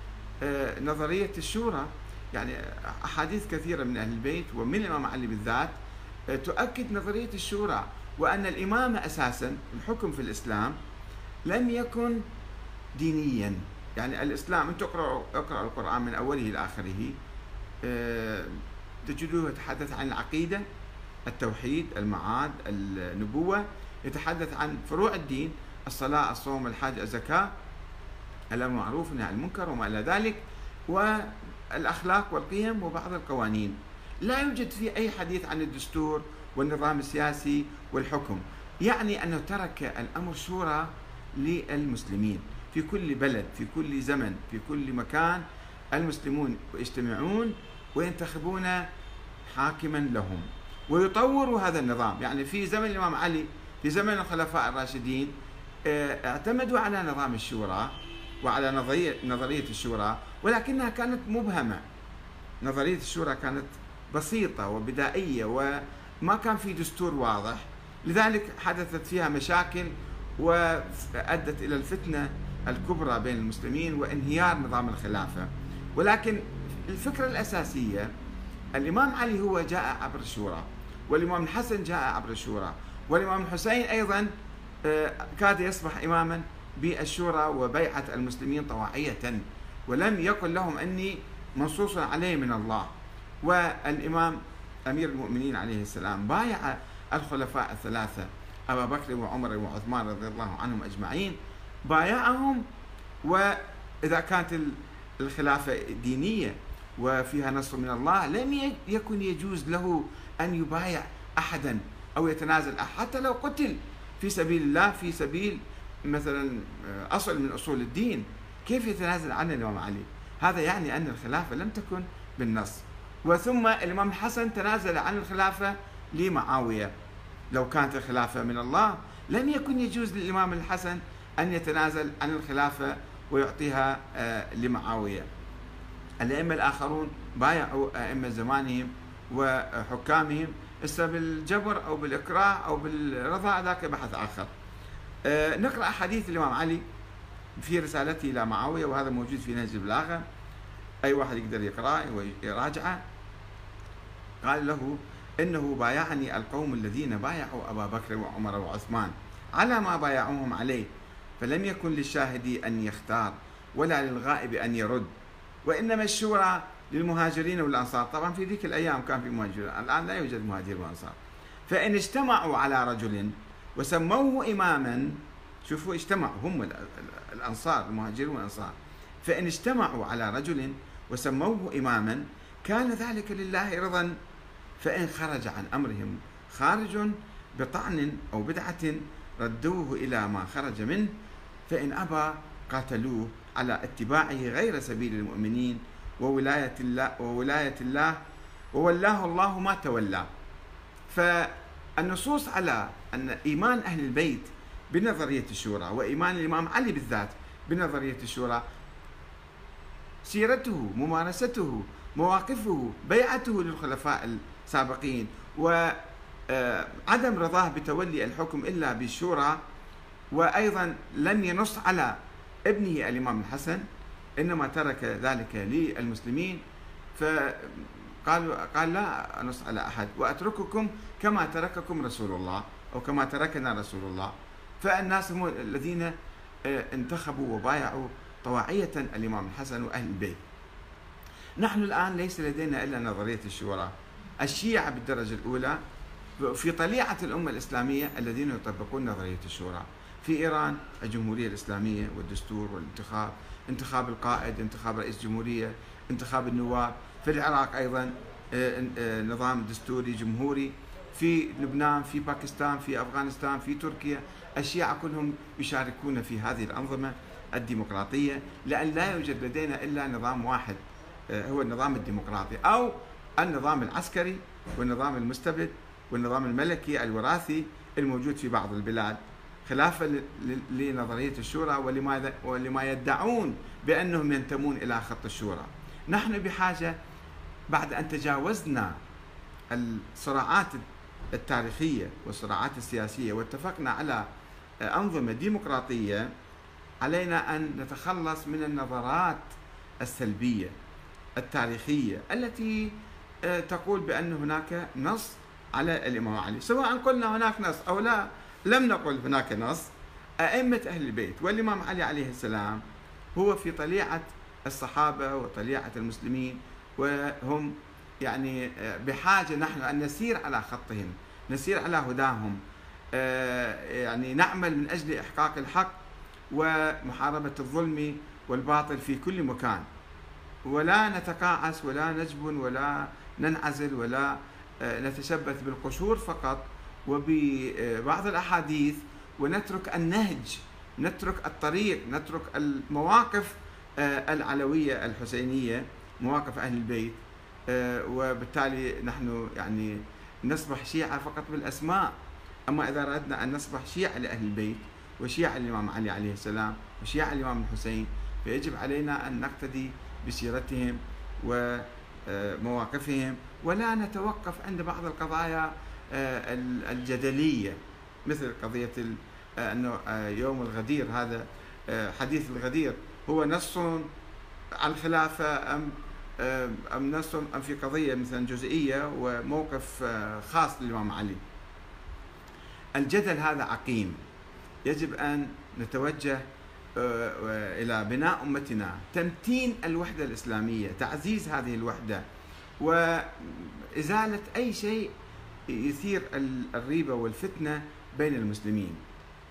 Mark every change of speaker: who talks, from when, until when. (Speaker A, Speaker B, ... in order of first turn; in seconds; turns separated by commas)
Speaker A: 0.4-5.8, Speaker A: 6.3-10.8, Speaker A: 11.5-12.2, Speaker A: 13.0-17.1, Speaker A: 17.8-20.6, Speaker A: 21.3-27.5, Speaker A: 28.5-48.9, Speaker A: 49.5-55.3, Speaker A: 55.9-61.8, Speaker A: 62.6-78.1, Speaker A: 78.8-84.3, Speaker A: 84.8-102.7, Speaker A: 103.2-126.9, Speaker A: 127.5-135.3, Speaker A: 136.2-144.5, Speaker A: 145.2-146.8, Speaker A: 147.6-150.2, Speaker A: 151.1-153.0, Speaker A: 154.4-165.1, Speaker A: 165.7-184.2, Speaker A: 184.8-191.1, Speaker A: 191.7-198.2, Speaker A: 198.7-200.3, Speaker A: 201.1-208.6, Speaker A: 210.2-216.0, Speaker A: 216.5-219.6, Speaker A: 220.3-223.8, Speaker A: 224.4-226.6, Speaker A: 227.2-236.1, Speaker A: 236.7-240.4, Speaker A: 241.6-245.8, Speaker A: 246.4-286.9, Speaker A: 287.7-289.0, Speaker A: 289.7-294.2, Speaker A: 294.8-296.3, Speaker A: 297.0-300.7, Speaker A: 301.4-309.9, Speaker A: 310.4-312.8, Speaker A: 313.4-322.6, Speaker A: 323.1-325.9, Speaker A: 326.5-329.9, Speaker A: 330.6-352.2, Speaker A: 352.7-374.1, Speaker A: 374.8-381.4, Speaker A: 383.0-384.2, Speaker A: 384.9-386.4, Speaker A: 387.0-392.2, Speaker A: 392.8-395.1, Speaker A: 395.7-399.0